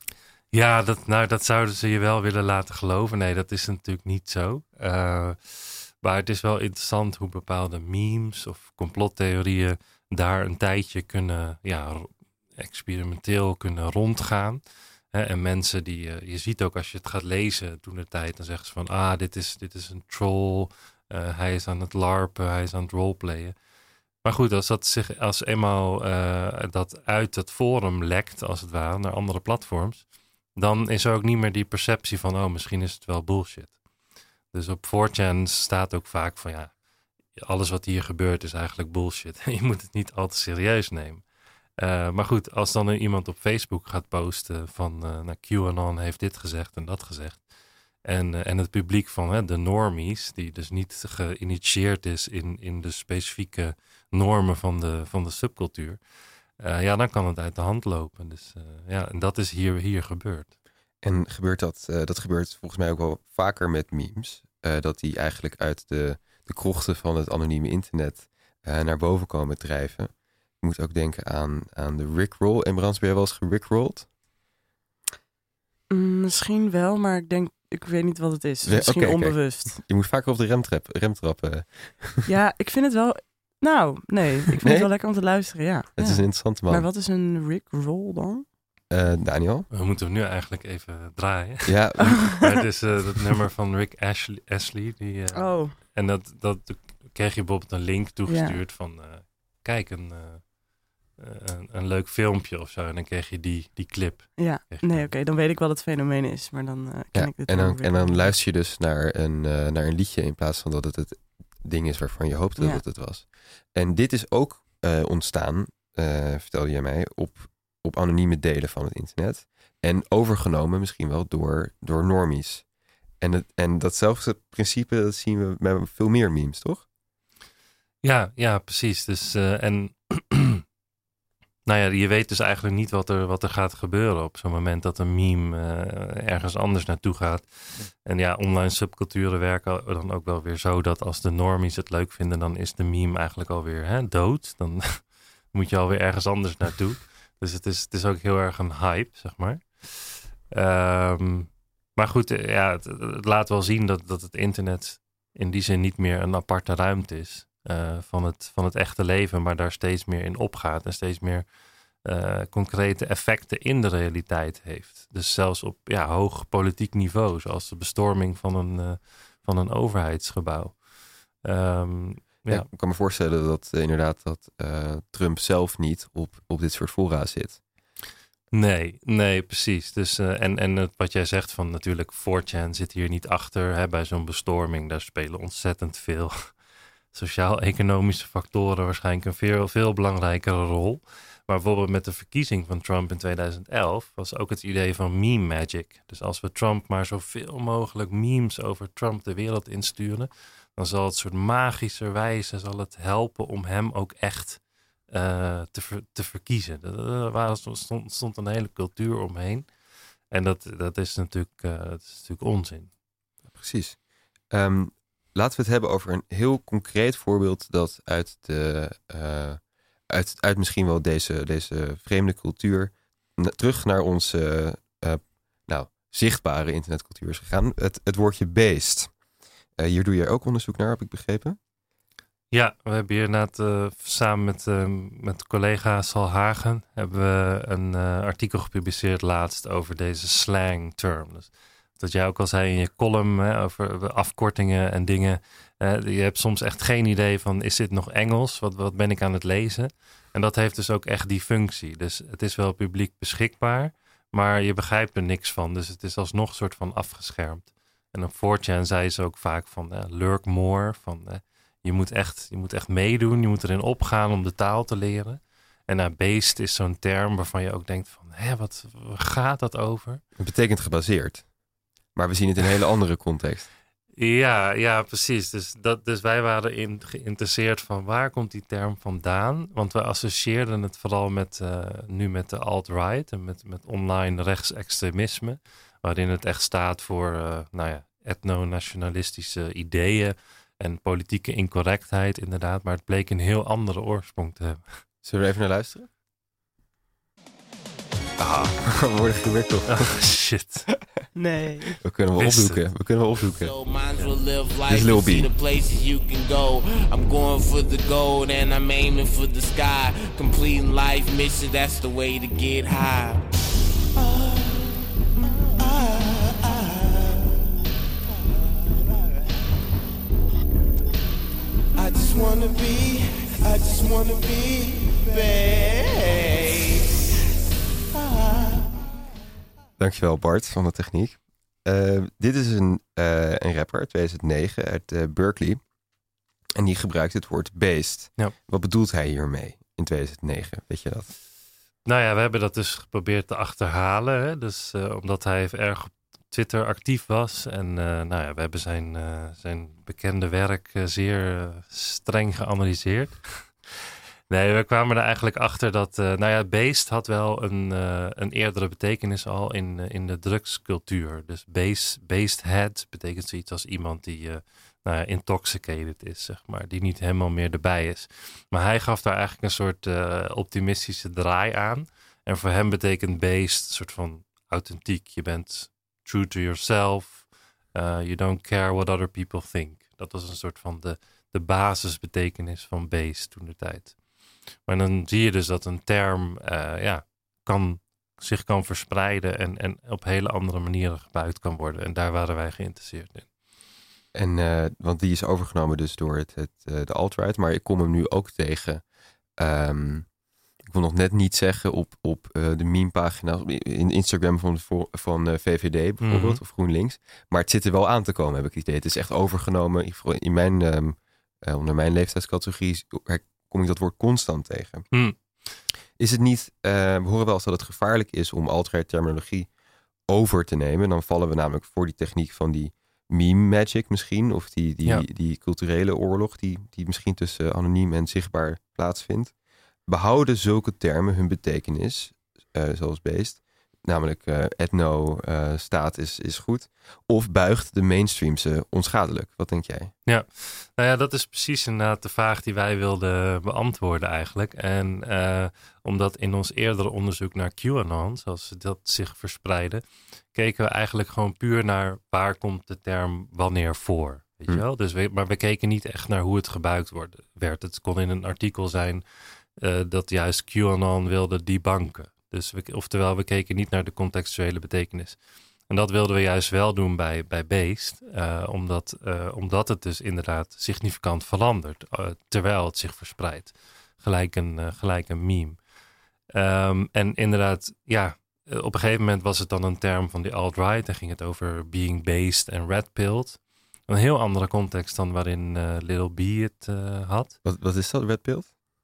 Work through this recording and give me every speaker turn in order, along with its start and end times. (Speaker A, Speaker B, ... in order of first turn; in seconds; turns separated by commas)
Speaker A: 0.5-23.5, Speaker A: 24.2-33.8, Speaker A: 34.5-36.7, Speaker A: 37.3-41.2, Speaker A: 41.8-47.4, Speaker A: 48.0-56.0, Speaker A: 56.6-60.5, Speaker B: 61.0-74.1, Speaker C: 75.9-79.8, Speaker B: 78.6-82.3, Speaker C: 82.2-88.5, Speaker B: 84.6-84.9, Speaker B: 86.0-86.9, Speaker B: 88.9-89.7, Speaker A: 89.7-100.4, Speaker B: 91.7-92.6, Speaker C: 95.3-95.7, Speaker C: 98.3-98.6, Speaker A: 101.2-105.1, Speaker C: 104.4-108.3, Speaker B: 107.1-122.7, Speaker C: 112.6-112.8, Speaker B: 123.2-126.8, Speaker A: 128.0-130.6, Speaker A: 131.7-161.4, Speaker A: 162.0-172.7, Speaker B: 172.5-177.6, Speaker A: 178.5-186.6, Speaker A: 187.1-209.7, Speaker A: 210.3-212.9, Speaker B: 213.5-214.0, Speaker B: 214.5-229.1, Speaker B: 229.8-231.6, Speaker A: 232.5-270.2, Speaker B: 270.4-271.5, Speaker B: 272.1-273.7, Speaker A: 274.2-295.0, Speaker B: 295.2-296.1, Speaker B: 298.4-300.2, Speaker A: 299.9-300.9, Speaker C: 301.3-302.0, Speaker B: 302.0-303.7, Speaker A: 302.4-302.8, Speaker D: 303.4-313.4, Speaker B: 304.9-305.5, Speaker D: 314.1-317.8, Speaker D: 318.4-319.4, Speaker D: 321.9-327.2, Speaker D: 328.1-329.0, Speaker B: 330.0-335.8, Speaker B: 336.8-341.3, Speaker A: 342.1-353.7, Speaker A: 354.5-384.2, Speaker A: 384.9-393.5, Speaker B: 394.3-399.0, Speaker B: 399.6-400.3, Speaker B: 400.8-415.1, Speaker A: 406.2-406.6, Speaker A: 415.1-415.8, Speaker B: 416.2-419.7, Speaker B: 420.3-429.5, Speaker B: 430.1-440.1, Speaker A: 440.2-450.0, Speaker A: 450.5-459.2, Speaker A: 459.8-465.4, Speaker A: 465.9-475.8, Speaker A: 476.5-487.6, Speaker B: 487.6-488.7